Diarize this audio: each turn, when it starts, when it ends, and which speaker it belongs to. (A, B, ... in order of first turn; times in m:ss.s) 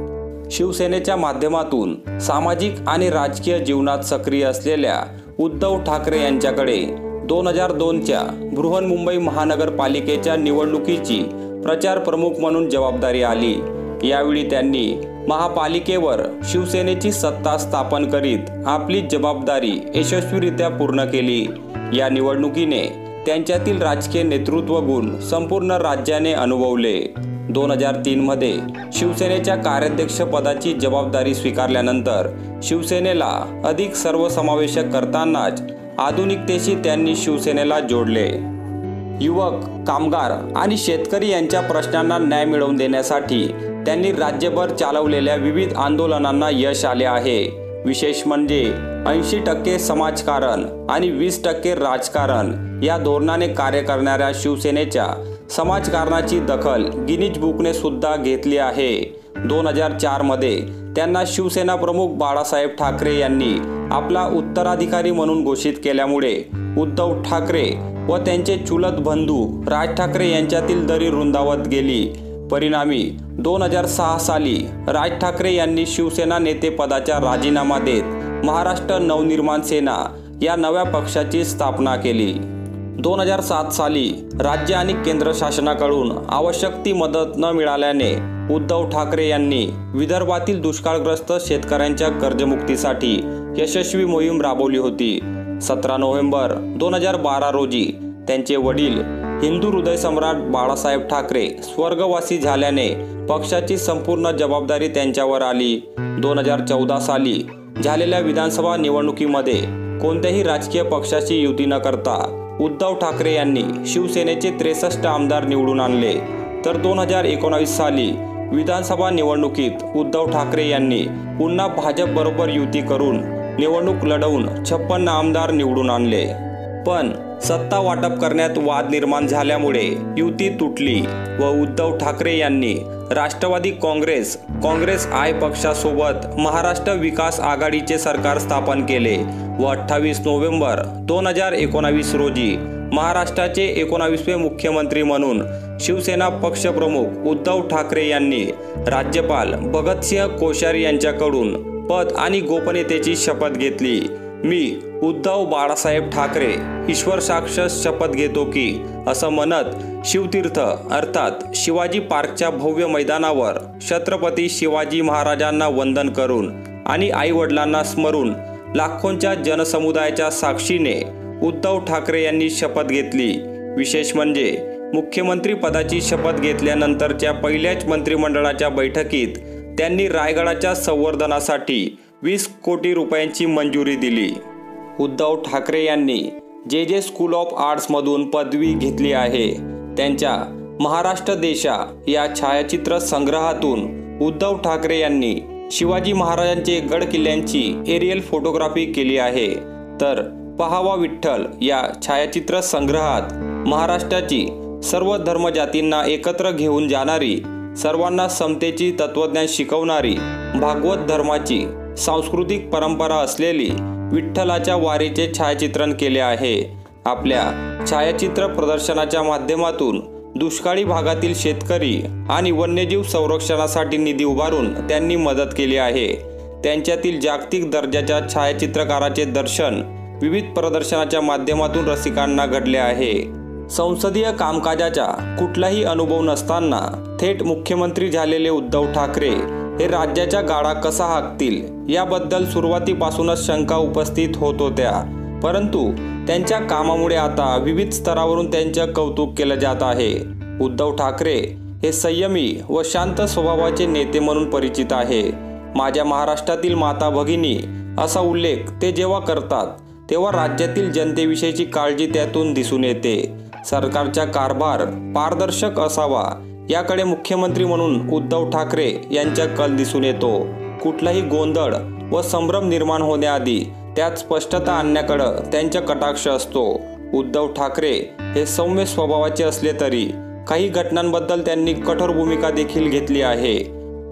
0:00.5-0:38.4 A
0:39.2-1:22.4 A
1:23.0-3:04.4 A
3:05.0-4:43.7 A